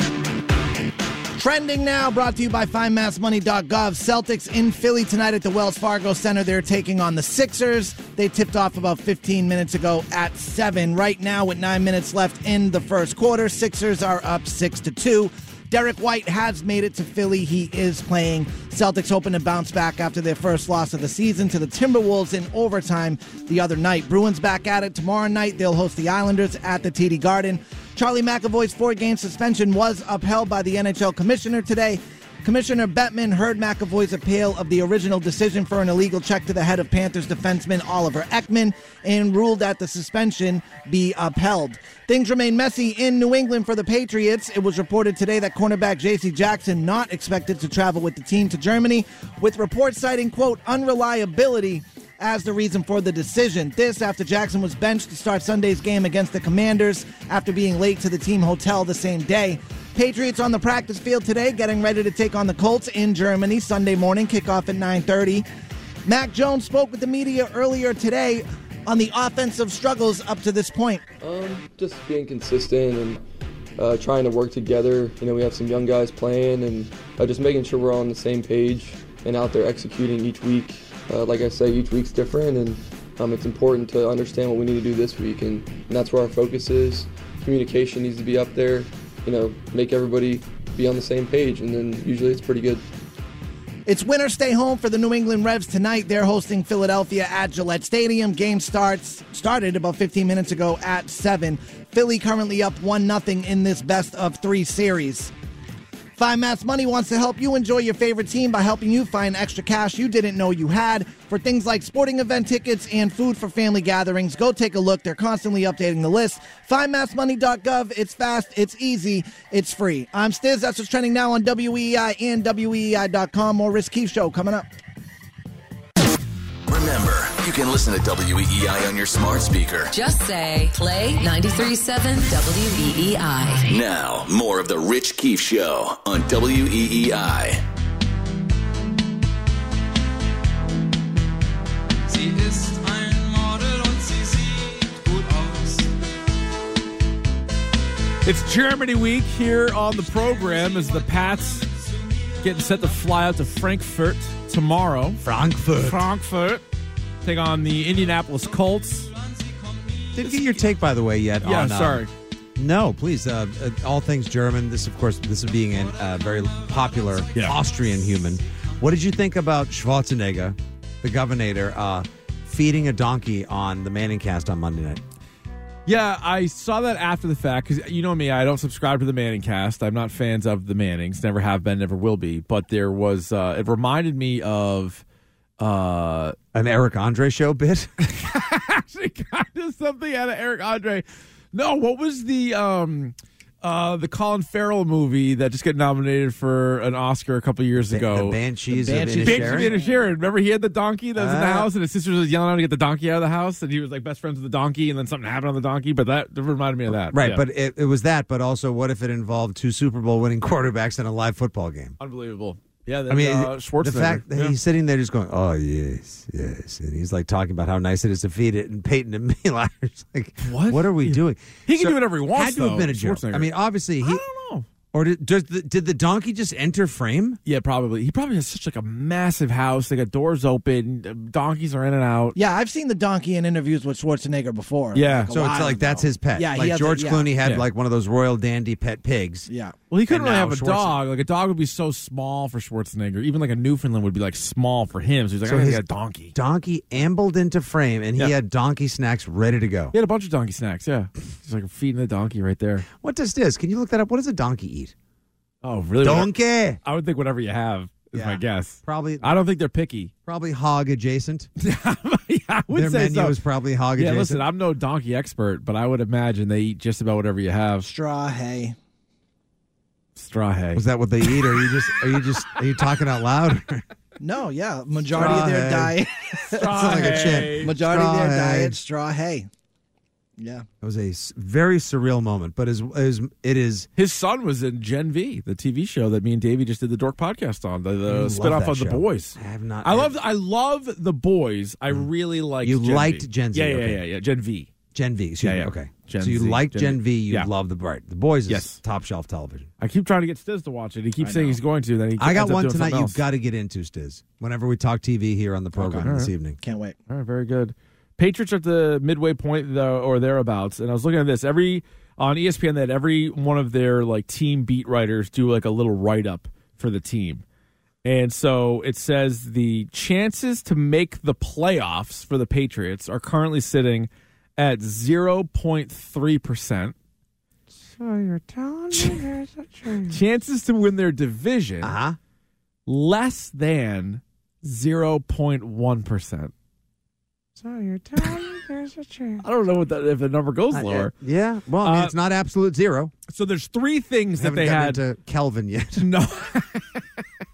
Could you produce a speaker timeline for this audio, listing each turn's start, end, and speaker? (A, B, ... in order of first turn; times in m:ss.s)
0:01.4-1:05.4 A
1:06.0-1:11.0 A
1:11.2-1:13.2 B
1:13.8-1:32.8 B
1:33.8-1:45.3 A
1:46.2-2:04.6 A
2:06.7-2:09.9 C
2:09.9-2:13.7 D
2:13.6-2:17.6 C
2:28.2-2:31.7 E
2:32.4-2:35.2 E
2:35.2-2:36.1 F
2:35.8-2:36.6 E
2:37.2-2:39.1 E
2:40.1-2:55.0 F
2:40.2-2:40.5 E
2:41.4-2:42.1 E
2:55.8-3:05.0 E
3:05.6-3:06.4 E
3:06.5-3:08.0 F
3:08.1-3:27.4 E
3:17.9-3:19.7 F
3:18.8-3:19.8 A
3:21.2-3:21.7 F
3:27.1-3:32.0 F
3:32.0-3:34.6 E
3:33.1-3:44.2 F
3:40.4-3:44.7 E
3:44.9-3:47.4 F
3:47.4-3:52.4 E
3:52.3-3:57.3 A
3:54.9-3:55.3 E
3:55.3-3:59.5 F
3:59.5-3:59.7 A
3:59.9-4:06.3 E
4:00.1-4:01.0 F
4:05.4-4:09.9 F
4:09.9-4:12.8 E
4:12.9-4:14.9 F
4:15.6-4:20.1 E
4:16.0-4:16.8 F
4:18.1-4:19.4 F
4:20.2-4:21.5 F
4:21.6-4:23.4 E
4:22.7-4:24.5 F
4:23.9-4:27.9 E
4:27.8-4:28.8 A
4:30.2-4:32.2 E
4:30.7-4:33.8 F
4:34.2-4:39.5 A
4:35.1-4:36.0 F
4:36.5-4:37.7 E
4:36.5-4:38.8 F
4:40.4-4:40.6 A
4:40.8-4:43.9 F
4:44.0-4:54.7 E
4:48.0-4:50.1 F
4:52.6-4:54.0 F
4:54.9-4:59.7 F
4:55.4-4:57.5 E
4:58.5-4:58.8 E
4:59.8-5:03.2 E
5:01.2-5:01.5 A
5:02.2-5:06.6 F
5:05.8-5:06.3 E
5:06.6-5:07.0 A
5:07.1-5:17.4 E
5:18.0-5:26.9 E
5:27.7-5:30.2 F
5:28.9-5:29.2 E
5:30.1-5:31.9 E
5:31.8-5:32.2 F
5:32.9-5:36.5 E
5:37.6-5:39.4 F
5:39.4-5:41.1 E
5:40.7-5:43.1 F
5:41.8-5:42.1 E
5:43.3-5:45.0 E
5:44.4-5:46.0 F
5:46.0-5:47.0 E